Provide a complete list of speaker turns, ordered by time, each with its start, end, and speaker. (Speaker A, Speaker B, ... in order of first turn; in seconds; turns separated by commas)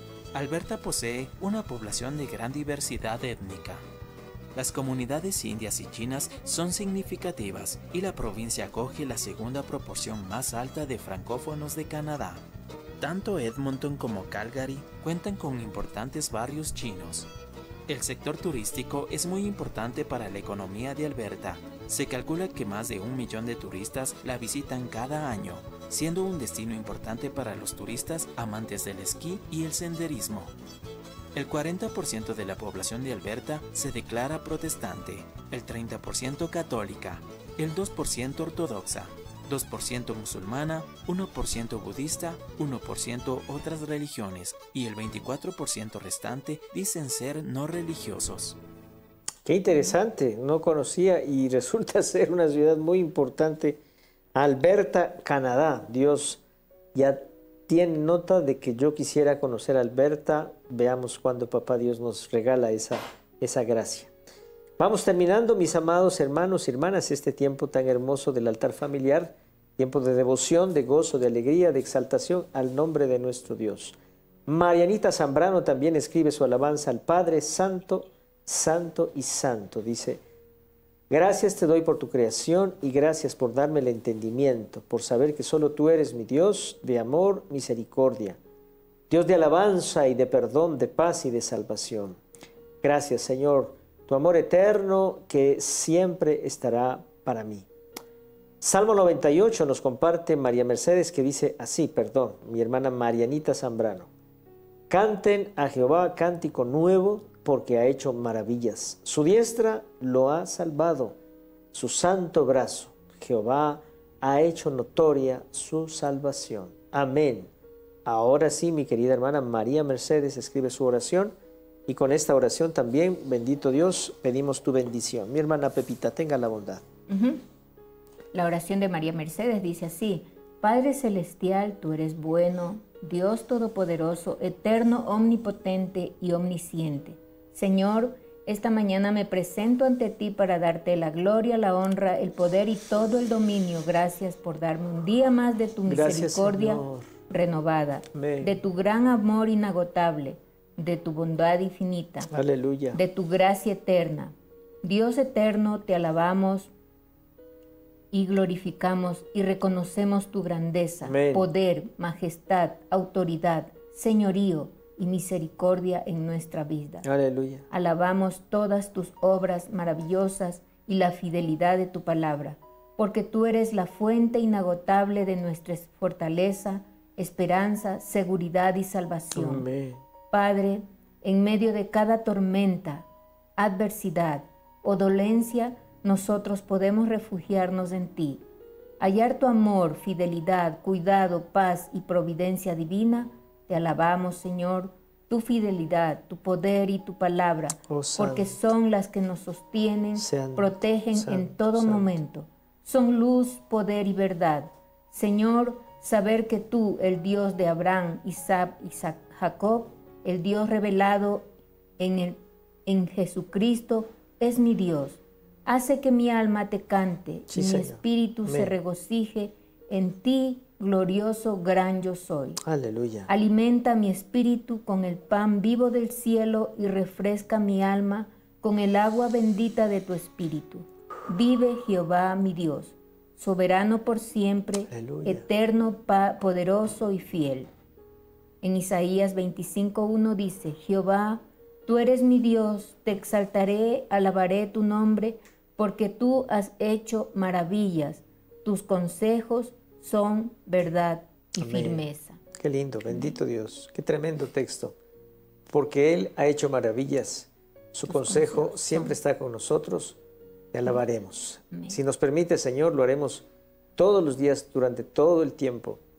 Speaker A: 0.3-3.8, Speaker A: 4.5-12.4, Speaker A: 13.0-17.3, Speaker A: 17.9-30.5, Speaker A: 31.3-48.6, Speaker B: 49.5-53.8, Speaker B: 54.3-56.4, Speaker B: 56.9-64.1, Speaker B: 64.8-80.2, Speaker B: 81.1-88.4, Speaker B: 89.1-92.2, Speaker B: 92.8-97.7, Speaker B: 98.6-104.1, Speaker B: 104.9-111.2, Speaker B: 111.7-117.5, Speaker B: 118.0-121.3, Speaker B: 121.9-126.8, Speaker C: 127.1-127.4, Speaker C: 128.3-152.3, Speaker B: 145.8-147.1, Speaker B: 148.1-148.6, Speaker B: 152.3-153.0, Speaker C: 152.9-156.7, Speaker C: 158.1-167.1, Speaker B: 161.0-161.5, Speaker B: 167.0-167.7, Speaker C: 167.7-179.7, Speaker B: 179.3-180.0, Speaker C: 180.3-183.1, Speaker C: 183.6-188.4, Speaker C: 189.0-222.6, Speaker B: 197.9-198.6, Speaker B: 200.2-202.2, Speaker B: 217.5-218.7, Speaker B: 222.6-223.3, Speaker C: 223.3-237.7, Speaker B: 234.9-235.4, Speaker C: 238.6-252.4, Speaker B: 251.6-254.9, Speaker B: 255.7-260.2, Speaker C: 258.1-259.1, Speaker B: 260.7-263.4, Speaker C: 261.7-262.0, Speaker B: 264.0-266.0